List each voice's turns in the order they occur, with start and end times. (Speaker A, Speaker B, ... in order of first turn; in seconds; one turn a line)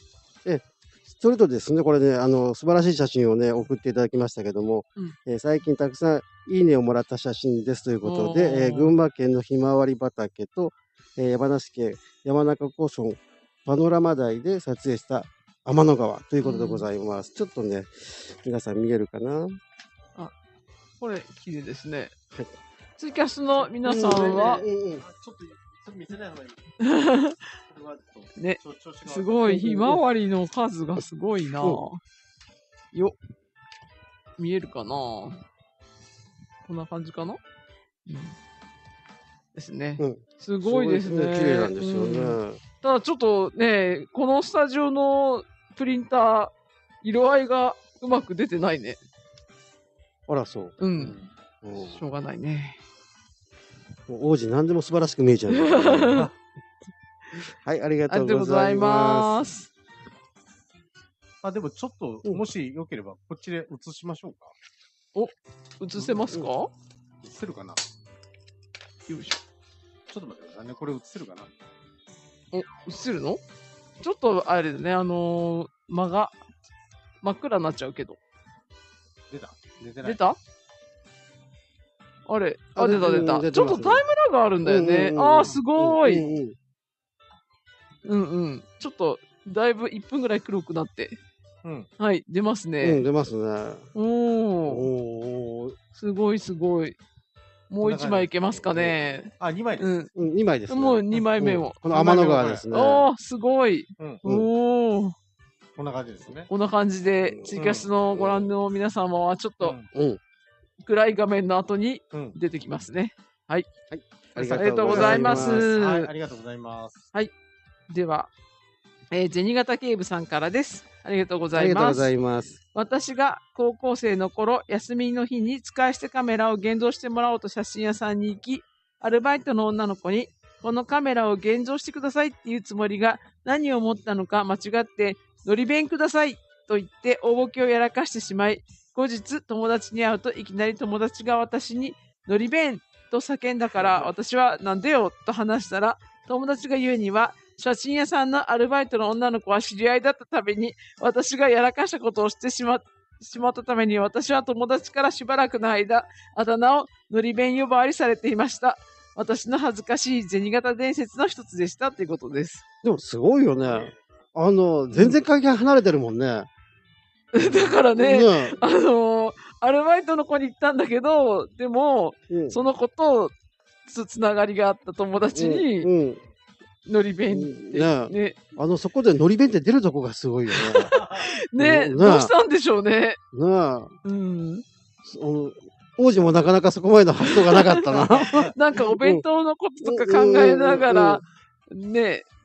Speaker A: 0.4-19.6
Speaker B: 8.0-8.9
Speaker B: 16.4-16.9
Speaker B: 21.0-22.1
Speaker B: 23.0-24.6
Speaker A: 23.8-25.0
Speaker C: 24.1-26.6
Speaker B: 26.8-27.4
Speaker C: 27.7-29.4
Speaker B: 28.4-32.0
Speaker A: 29.5-30.0
Speaker B: 34.4-35.4
Speaker B: 36.6-37.4
Speaker B: 38.1-38.3
Speaker B: 39.5-46.5
Speaker A: 40.0-42.6
Speaker B: 47.0-49.0
Speaker A: 50.3-50.8
Speaker B: 50.8-51.1
Speaker C: 51.0-51.3
Speaker A: 51.6-52.0
Speaker B: 51.8-52.8
Speaker A: 54.1-56.2
Speaker B: 55.5-56.3
Speaker A: 57.5-59.4
Speaker B: 58.1-59.7
Speaker C: 61.4-64.5
Speaker B: 65.1-66.7
Speaker C: 66.0-66.3
Speaker C: 67.2-67.8
Speaker B: 69.1-69.4
Speaker C: 70.1-71.5
Speaker B: 72.5-73.4
Speaker B: 74.0-76.3
Speaker B: 77.2-78.2
Speaker C: 79.3-80.2
Speaker B: 80.0-80.4
Speaker B: 82.3-86.3
Speaker A: 82.7-84.0
Speaker A: 84.6-86.5
Speaker B: 88.0-91.2
Speaker B: 92.0-93.0
Speaker A: 92.8-93.8
Speaker B: 93.9-94.9
Speaker A: 94.7-95.8
Speaker B: 95.9-97.0
Speaker B: 97.7-100.1
Speaker C: 97.8-99.9
Speaker A: 100.1-103.0
Speaker B: 100.7-105.1
Speaker C: 102.0-102.7
Speaker C: 105.8-106.5
Speaker B: 106.5-109.7
Speaker A: 107.2-107.5
Speaker C: 107.5-107.9
Speaker A: 108.1-108.4
Speaker C: 109.6-109.9
Speaker A: 109.9-110.2
Speaker B: 110.8-113.7
Speaker A: 113.9-115.7
Speaker C: 114.3-117.0
Speaker B: 114.5-116.1
Speaker B: 117.9-118.3
Speaker B: 119.1-122.1
Speaker A: 121.5-122.6
Speaker B: 122.7-162.6
Speaker C: 143.8-144.1
Speaker A: 162.8-166.5
Speaker C: 163.6-164.0
Speaker B: 167.3-173.3
Speaker A: 168.0-168.6
Speaker A: 172.3-172.6
Speaker B: 173.8-175.9
Speaker A: 175.3-176.2
Speaker B: 176.9-178.4
Speaker A: 177.3-181.0
Speaker C: 180.5-181.2
Speaker B: 180.5-183.2
Speaker A: 181.6-182.3
Speaker A: 183.3-183.9
Speaker B: 184.0-184.6
Speaker A: 185.0-189.2
Speaker B: 187.2-192.2
Speaker C: 187.9-188.5
Speaker A: 189.8-191.2